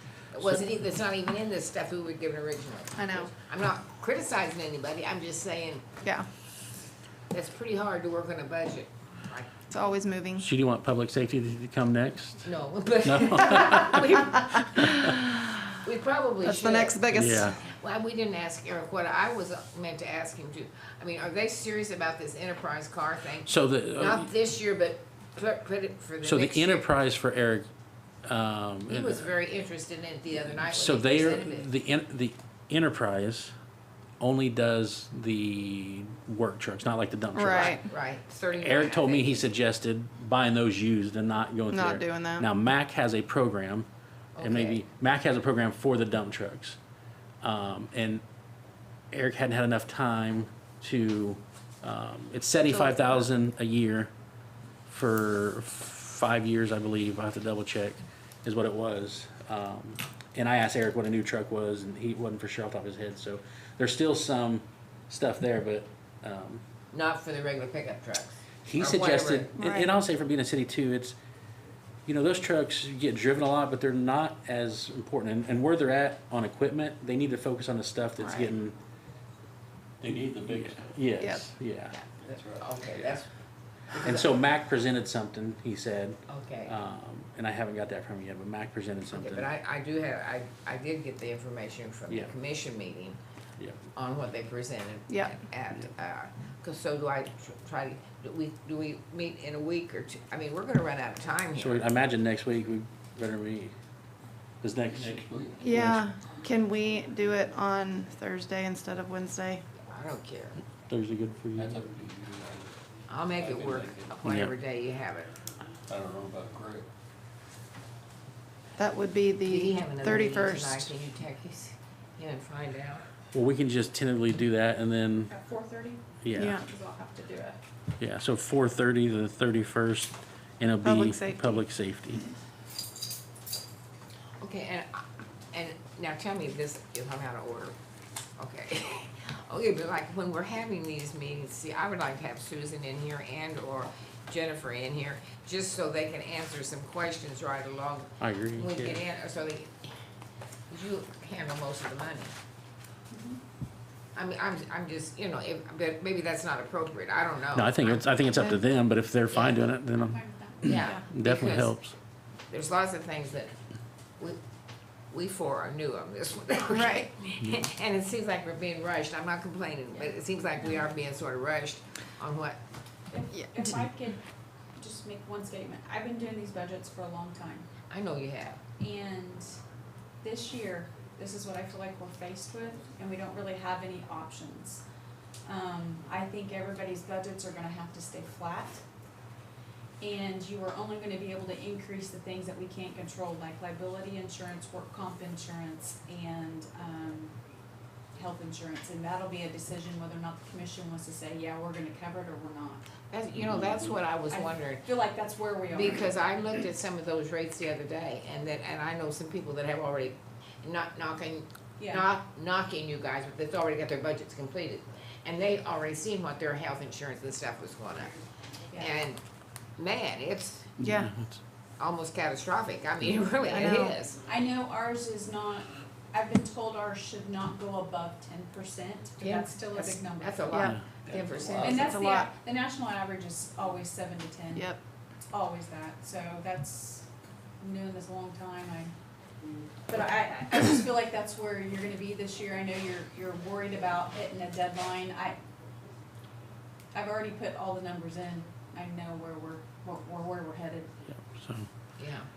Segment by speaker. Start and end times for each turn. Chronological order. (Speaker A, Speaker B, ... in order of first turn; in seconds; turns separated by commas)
Speaker A: 0.3-5.9, Speaker B: 3.0-3.3, Speaker A: 7.3-9.6, Speaker B: 9.7-10.5, Speaker C: 10.4-12.5, Speaker A: 12.4-15.0, Speaker C: 13.0-15.2, Speaker B: 14.8-15.4, Speaker A: 15.8-26.9, Speaker B: 16.4-17.6, Speaker C: 17.1-17.6, Speaker C: 23.5-24.3, Speaker C: 26.2-27.7, Speaker C: 28.2-29.3, Speaker A: 28.9-31.7, Speaker C: 30.6-33.5, Speaker C: 34.2-37.9, Speaker B: 37.4-37.8, Speaker A: 37.5-39.5, Speaker C: 38.5-43.9, Speaker B: 41.7-42.5, Speaker A: 44.4-44.8, Speaker C: 44.4-46.8, Speaker C: 47.4-48.2, Speaker C: 49.1-54.1, Speaker A: 52.7-53.2, Speaker C: 54.9-66.6, Speaker A: 66.9-69.5, Speaker C: 68.7-71.2, Speaker B: 69.6-69.9, Speaker C: 72.1-78.8, Speaker B: 78.2-78.5, Speaker C: 80.0-82.0, Speaker B: 81.2-81.5, Speaker A: 81.9-83.3, Speaker D: 82.3-83.1, Speaker A: 83.9-84.3, Speaker C: 84.0-89.5, Speaker A: 86.3-86.7, Speaker A: 89.1-93.2, Speaker A: 93.9-101.9, Speaker B: 95.1-95.4, Speaker C: 101.6-103.8, Speaker C: 104.6-106.1, Speaker D: 104.9-105.8, Speaker B: 105.6-109.6, Speaker A: 109.8-110.6, Speaker C: 110.8-111.8, Speaker D: 111.5-112.7, Speaker A: 113.1-115.3, Speaker D: 113.3-114.2, Speaker C: 114.2-114.5, Speaker D: 115.9-116.9, Speaker B: 118.8-120.9, Speaker A: 119.5-123.0, Speaker C: 123.3-125.3, Speaker E: 125.3-127.6, Speaker C: 126.2-126.6, Speaker B: 126.3-126.6, Speaker C: 128.0-132.3, Speaker B: 130.8-131.6, Speaker A: 134.4-137.8, Speaker A: 138.4-149.9, Speaker C: 148.2-149.0, Speaker A: 150.7-152.3, Speaker E: 153.1-153.4, Speaker A: 154.2-158.2, Speaker C: 157.5-161.9, Speaker A: 159.3-159.7, Speaker E: 160.1-160.7, Speaker A: 160.6-161.8, Speaker A: 162.5-163.5, Speaker A: 165.1-172.6, Speaker B: 166.7-167.1, Speaker E: 173.1-174.2, Speaker E: 174.8-177.7, Speaker A: 177.9-178.6, Speaker E: 178.8-179.6, Speaker E: 180.2-184.8, Speaker E: 185.4-188.8, Speaker E: 190.0-197.3, Speaker E: 198.2-202.9, Speaker A: 203.1-204.8, Speaker E: 204.3-206.1, Speaker A: 205.7-218.1, Speaker E: 211.8-212.1, Speaker A: 218.7-219.2, Speaker A: 219.8-220.7, Speaker C: 220.8-221.4, Speaker B: 220.8-221.1, Speaker A: 221.8-224.2, Speaker B: 223.4-224.0, Speaker E: 224.2-230.4, Speaker A: 229.2-232.1, Speaker B: 230.5-230.8, Speaker C: 230.5-230.8, Speaker D: 231.1-231.9, Speaker E: 231.7-234.7, Speaker B: 231.7-232.3, Speaker B: 234.6-234.8, Speaker E: 235.3-237.1, Speaker E: 237.6-238.9, Speaker E: 239.9-245.4, Speaker E: 246.9-250.9, Speaker C: 251.1-251.7, Speaker A: 252.0-252.3